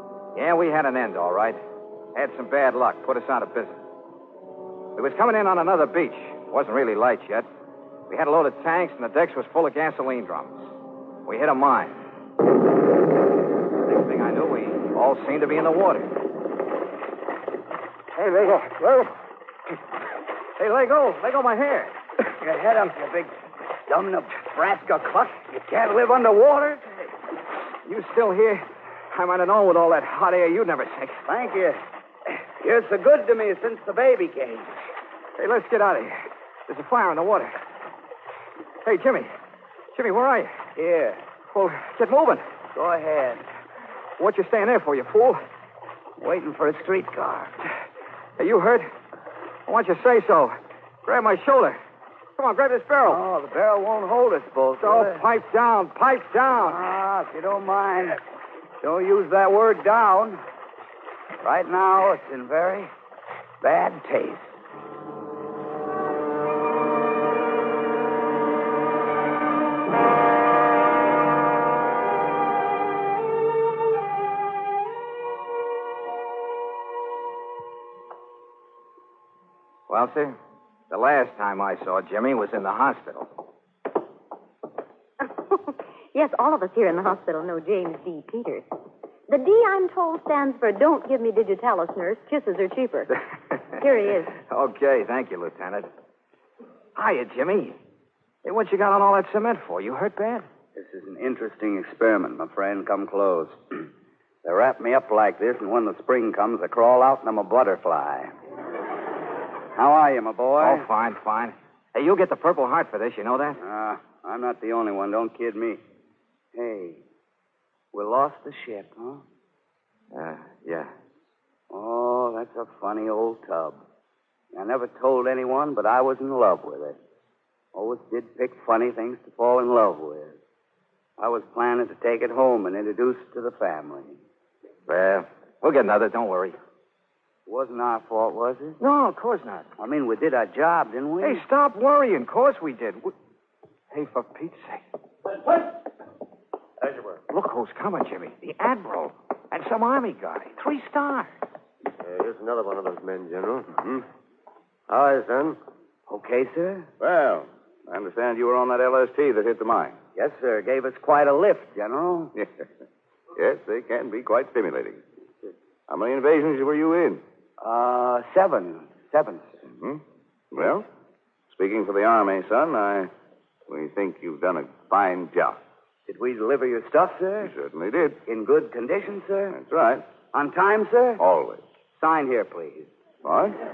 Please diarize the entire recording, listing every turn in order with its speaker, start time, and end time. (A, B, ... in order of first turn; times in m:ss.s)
0:00.4-0:01.6 A
0:02.2-0:03.8 A
0:05.0-0:07.5 A
0:08.1-0:10.7 A
0:11.3-0:11.9 A
0:13.9-0:16.1 A
0:18.2-0:19.1 A
0:20.6-0:21.9 A
0:22.4-0:23.3 B
0:23.9-0:27.1 B
0:27.9-0:31.2 A
0:31.3-0:34.7 B
0:35.4-0:36.1 A
0:36.7-0:37.5 A
0:38.8-0:39.3 A
0:40.0-0:40.5 A
0:40.8-0:41.2 B
0:41.5-0:42.4 A
0:42.7-0:43.4 B
0:44.2-0:45.4 A
0:46.2-0:47.6 B
0:48.4-0:48.9 A
0:49.7-0:50.5 A
0:51.1-0:51.8 A
0:52.4-0:53.2 A
0:53.1-0:55.2 B
0:54.8-0:56.8 A
0:56.6-0:58.2 B
0:58.8-1:00.4 B
1:01.4-1:02.9 B
1:03.6-1:04.5 B
1:19.9-1:20.4 A
1:20.9-1:23.3 A
1:25.5-1:28.7 C
1:29.3-1:33.1 C
1:33.1-1:33.8 A
1:33.8-1:34.3 C
1:34.5-1:35.9 A
1:37.0-1:37.8 A
1:38.4-1:40.5 A
1:40.8-1:43.8 B
1:44.4-1:48.3 B
1:49.8-1:50.9 B
1:50.6-1:53.6 A
1:53.6-1:55.8 B
1:56.5-1:57.0 B
1:57.9-1:59.2 B
2:00.1-2:00.9 A
2:01.7-2:03.8 B
2:04.5-2:07.0 B
2:07.7-2:10.4 B
2:11.2-2:14.2 B
2:14.9-2:16.6 A
2:17.5-2:18.8 B
2:18.8-2:19.7 A
2:19.8-2:21.4 B
2:21.2-2:23.1 A
2:23.9-2:24.8 A
2:26.8-2:27.2 D
2:27.3-2:31.3 A
2:32.0-2:33.8 D
2:34.9-2:35.6 D
2:36.1-2:36.9 B
2:37.0-2:40.0 E
2:40.2-2:42.3 B
2:42.4-2:42.7 E
2:43.4-2:45.0 E
2:45.9-2:47.2 E
2:47.6-2:49.5 B
2:49.7-2:50.9 E
2:51.5-2:53.1 E
2:53.7-2:55.6 E
2:56.1-2:57.5 B
2:57.4-2:58.2 E
2:58.3-2:59.6 B
2:59.5-3:00.0 E
3:00.3-3:01.2 B
3:01.2-3:01.6 E
3:02.0-3:02.9 B
3:03.2-3:03.6 E